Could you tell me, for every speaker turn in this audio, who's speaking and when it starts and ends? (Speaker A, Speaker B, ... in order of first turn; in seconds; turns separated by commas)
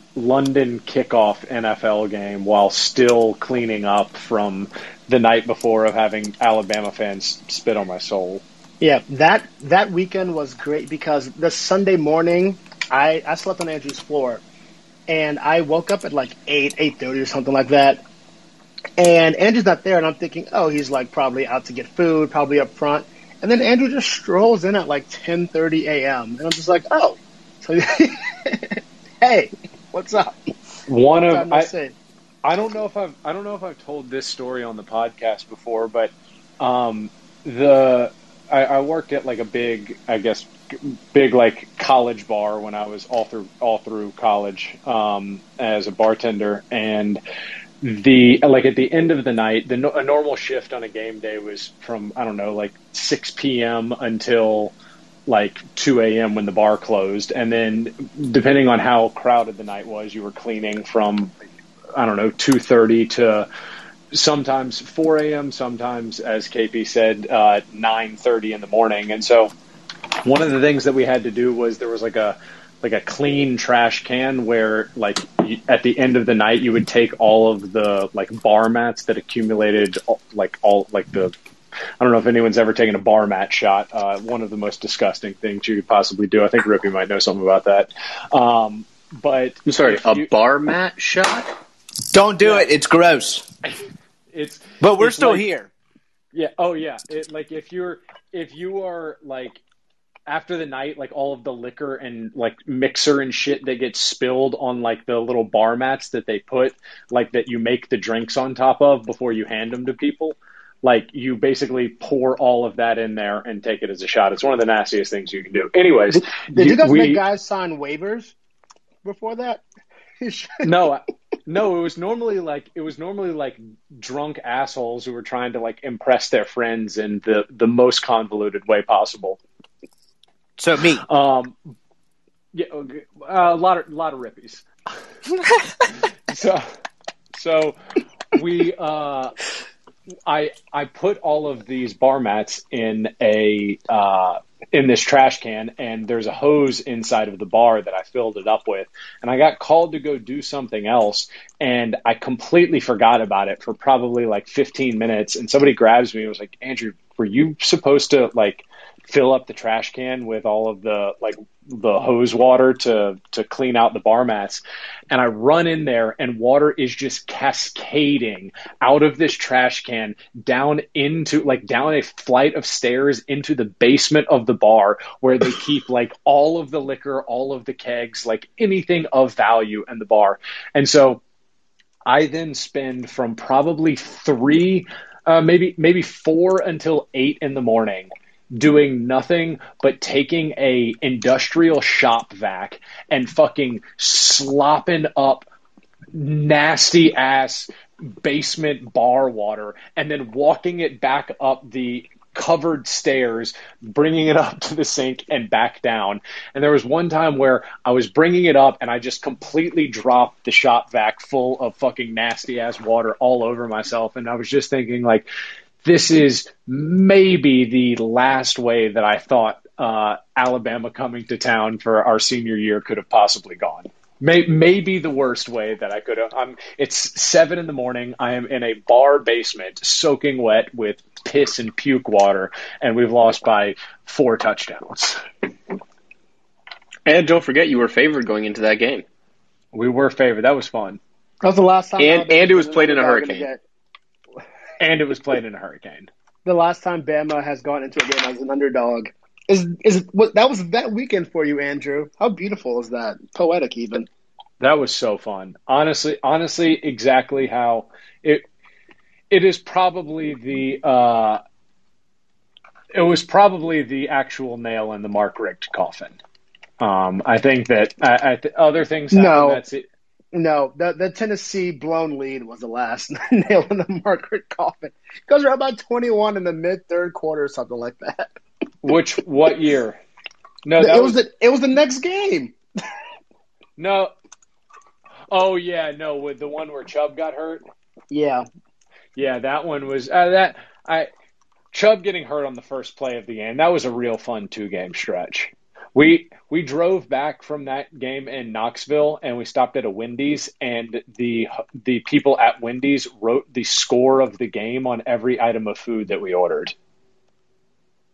Speaker A: 0.1-8.4, Speaker B: 8.8-14.4, Speaker B: 15.1-18.0, Speaker B: 19.0-30.4, Speaker A: 30.9-31.7, Speaker B: 31.3-31.9, Speaker A: 32.4-47.2, Speaker A: 47.8-54.7, Speaker A: 55.3-61.3, Speaker A: 62.0-63.5, Speaker A: 64.1-69.5, Speaker A: 70.2-81.3, Speaker A: 82.0-90.3, Speaker C: 89.7-91.5, Speaker D: 92.1-93.5, Speaker A: 92.4-92.7, Speaker A: 93.6-95.5, Speaker D: 94.8-95.7, Speaker A: 96.3-99.6, Speaker A: 100.3-117.2, Speaker B: 116.1-118.3, Speaker B: 119.0-119.6, Speaker B: 120.2-120.7, Speaker A: 120.6-129.4, Speaker D: 130.6-131.0, Speaker A: 131.0-131.6, Speaker A: 132.5-134.6, Speaker A: 135.9-136.6, Speaker A: 137.3-137.8, Speaker A: 138.3-139.3, Speaker A: 140.3-181.2, Speaker A: 182.1-195.5, Speaker A: 196.1-215.3, Speaker A: 215.8-235.2, Speaker C: 237.1-239.0, Speaker A: 239.7-241.0, Speaker B: 241.4-243.6, Speaker C: 242.0-243.5, Speaker A: 244.8-246.1, Speaker B: 246.4-254.1, Speaker A: 254.6-258.4, Speaker A: 259.3-261.4, Speaker A: 262.9-266.2, Speaker A: 266.8-269.9, Speaker B: 269.1-269.6, Speaker B: 270.3-278.3, Speaker A: 278.8-280.0, Speaker A: 280.6-281.1, Speaker B: 280.8-282.5, Speaker A: 283.8-284.1, Speaker A: 285.3-287.6, Speaker B: 288.1-288.4, Speaker A: 289.1-291.1, Speaker A: 291.7-306.7